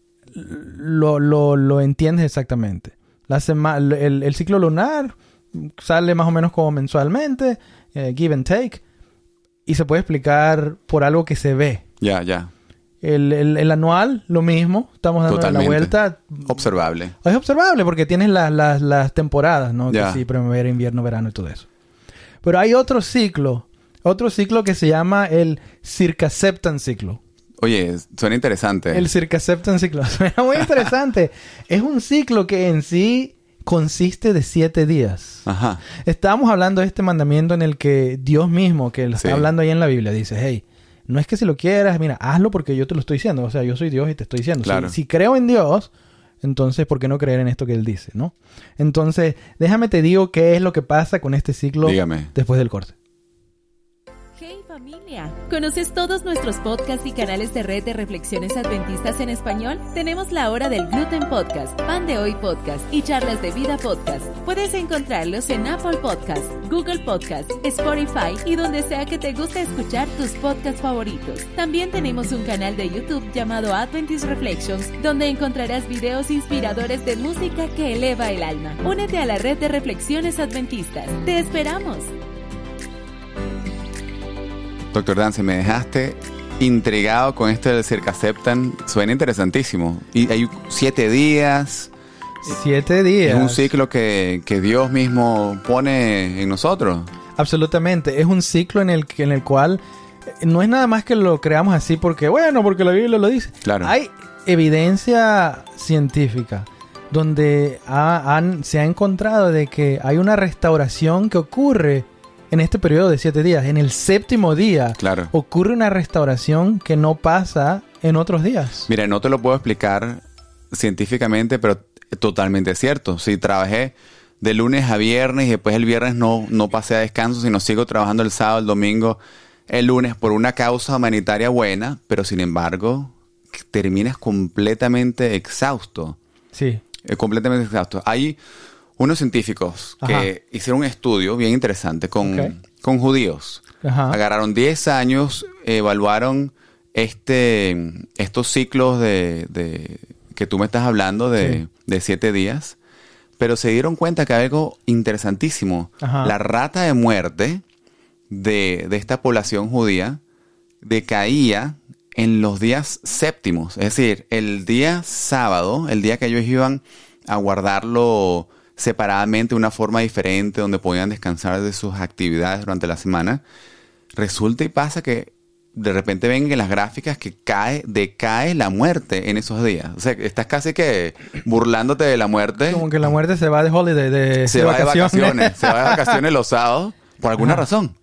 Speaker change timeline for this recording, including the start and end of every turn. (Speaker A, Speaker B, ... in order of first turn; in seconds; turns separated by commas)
Speaker A: 0.3-8.8, Speaker A: 9.7-11.8, Speaker B: 12.0-12.5, Speaker A: 13.0-16.6, Speaker B: 15.3-17.1, Speaker A: 17.2-21.7, Speaker B: 19.9-20.2, Speaker A: 22.4-27.2, Speaker B: 27.6-29.1, Speaker A: 28.9-35.5, Speaker B: 35.5-35.8, Speaker A: 36.0-45.9, Speaker B: 39.2-39.5, Speaker B: 44.6-45.0, Speaker A: 46.4-52.9, Speaker B: 51.8-52.3, Speaker C: 54.4-82.1, Speaker B: 84.9-91.9, Speaker A: 92.5-93.7, Speaker B: 93.2-97.1, Speaker A: 97.3-99.8, Speaker A: 100.4-118.9, Speaker B: 103.6-103.9, Speaker B: 115.0-115.3, Speaker B: 118.9-136.2, Speaker A: 136.5-136.8, Speaker B: 137.1-138.4, Speaker B: 139.0-152.8, Speaker A: 140.0-140.3, Speaker A: 142.2-142.5, Speaker A: 143.8-144.2, Speaker B: 153.4-157.6, Speaker A: 156.0-156.3, Speaker B: 158.3-160.2, Speaker B: 160.8-173.4, Speaker B: 174.2-182.9, Speaker A: 182.7-186.2, Speaker B: 184.4-187.9, Speaker A: 187.4-187.6